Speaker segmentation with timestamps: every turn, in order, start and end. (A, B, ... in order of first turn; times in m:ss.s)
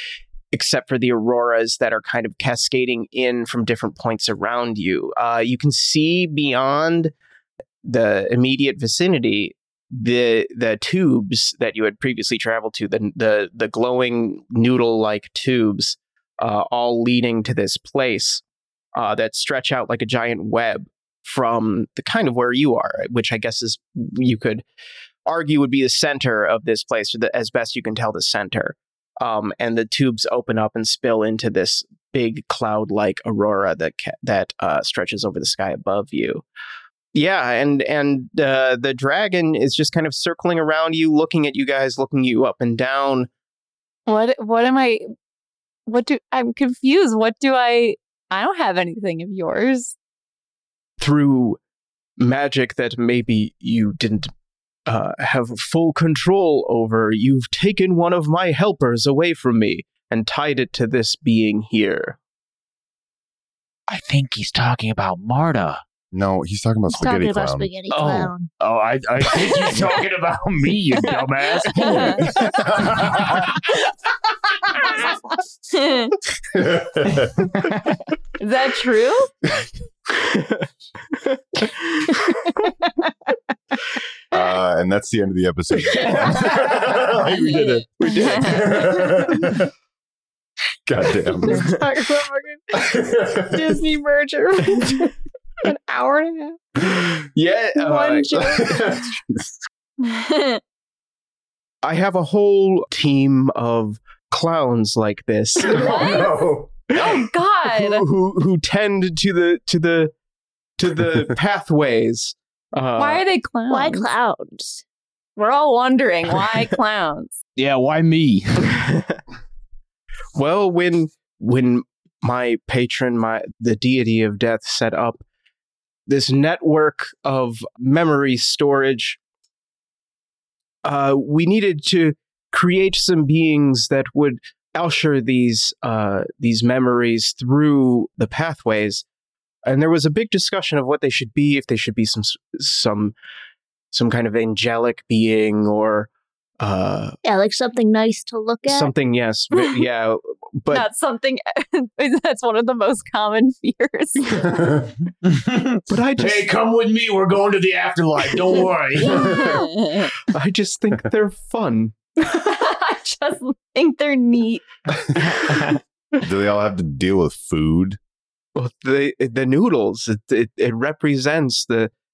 0:00.5-0:07.1 A
0:07.8-0:18.4 A
0:19.0-0:24.6 A
0:25.3-0:36.4 A
0:37.1-0:43.3 A
0:44.1-0:45.0 B
0:45.9-0:49.9 B
0:51.0-0:51.6 A
0:52.2-0:54.3 A
0:54.9-1:02.2 A
1:03.9-1:05.8 C
1:06.1-1:07.7 D
1:06.9-1:08.5 E
1:07.9-1:13.6 C
1:11.7-1:12.6 B
1:12.7-1:13.1 D
1:15.7-1:16.2 B
1:16.5-1:17.5 D
1:17.2-1:18.0 C
1:18.4-1:19.3 B
1:20.1-1:22.7 A
1:24.3-1:29.7 D
1:25.9-1:27.1 A
1:27.4-1:28.7 B
1:28.0-1:29.4 A
1:30.9-1:31.7 D
1:31.4-1:32.7 F
1:33.0-1:33.4 D
1:33.4-1:35.1 F
1:35.6-1:36.6 F
1:37.0-1:39.0 A
1:37.8-1:39.0 F
1:38.7-1:39.0 D
1:40.0-1:40.6 B
1:41.8-1:50.1 A
1:45.6-1:46.4 B
1:46.0-1:46.7 D
1:46.9-1:48.0 B
1:50.8-1:53.2 A
1:53.0-1:54.1 B
1:53.7-1:54.8 E
1:55.4-1:57.4 B
1:57.6-1:58.8 C
1:58.7-1:59.2 A
2:00.4-2:05.2 A
2:06.1-2:09.2 A
2:10.8-2:19.0 A
2:19.6-2:23.1 A
2:23.9-2:27.2 A
2:27.2-2:28.9 E
2:28.7-2:30.9 A
2:29.6-2:29.8 B
2:30.7-2:34.4 B
2:34.5-2:34.8 D
2:35.2-2:39.4 C
2:35.9-2:36.5 A
2:39.0-2:40.1 B
2:39.0-2:39.6 A
2:40.3-2:41.9 A
2:42.2-2:44.6 B
2:45.4-2:45.8 C
2:46.2-2:48.0 D
2:48.6-2:51.9 A